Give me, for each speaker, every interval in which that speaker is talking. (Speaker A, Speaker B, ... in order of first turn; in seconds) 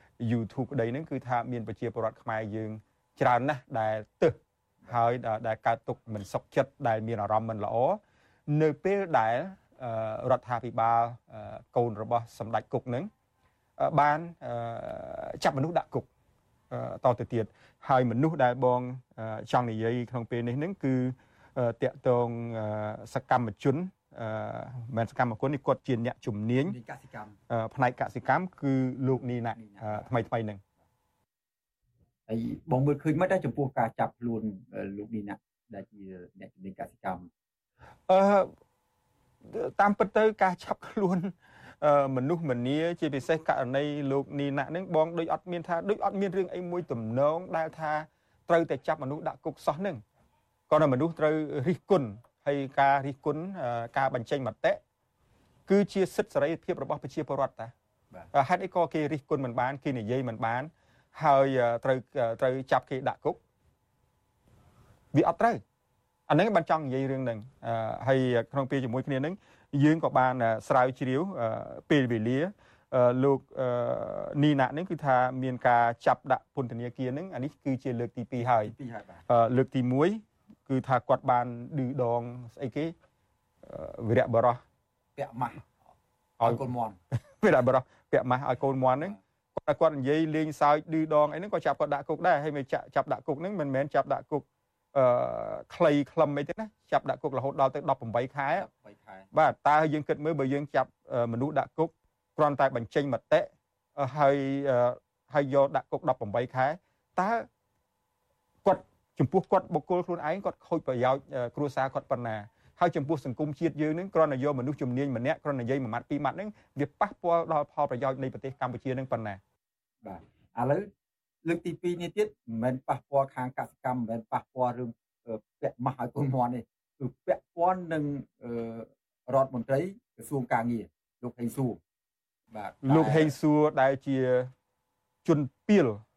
Speaker A: 0.2-13.1, 13.8-16.1, 16.7-26.8, 27.5-30.6, 38.1-38.5, 39.4-50.0, 50.7-54.8, 55.7-57.7, 58.3-63.4, 65.1-65.6, 66.3-78.7, 79.3-82.9, 83.6-84.6, 86.4-86.6, 87.4-98.7, 99.3-107.5, 108.6-119.4, 132.8-134.5, 135.2-136.0
Speaker B: 26.6-27.4, 29.5-30.1, 32.3-37.3, 78.7-79.2, 85.2-85.7, 86.4-87.0, 98.5-99.3, 120.0-120.9, 121.4-131.8, 132.5-133.3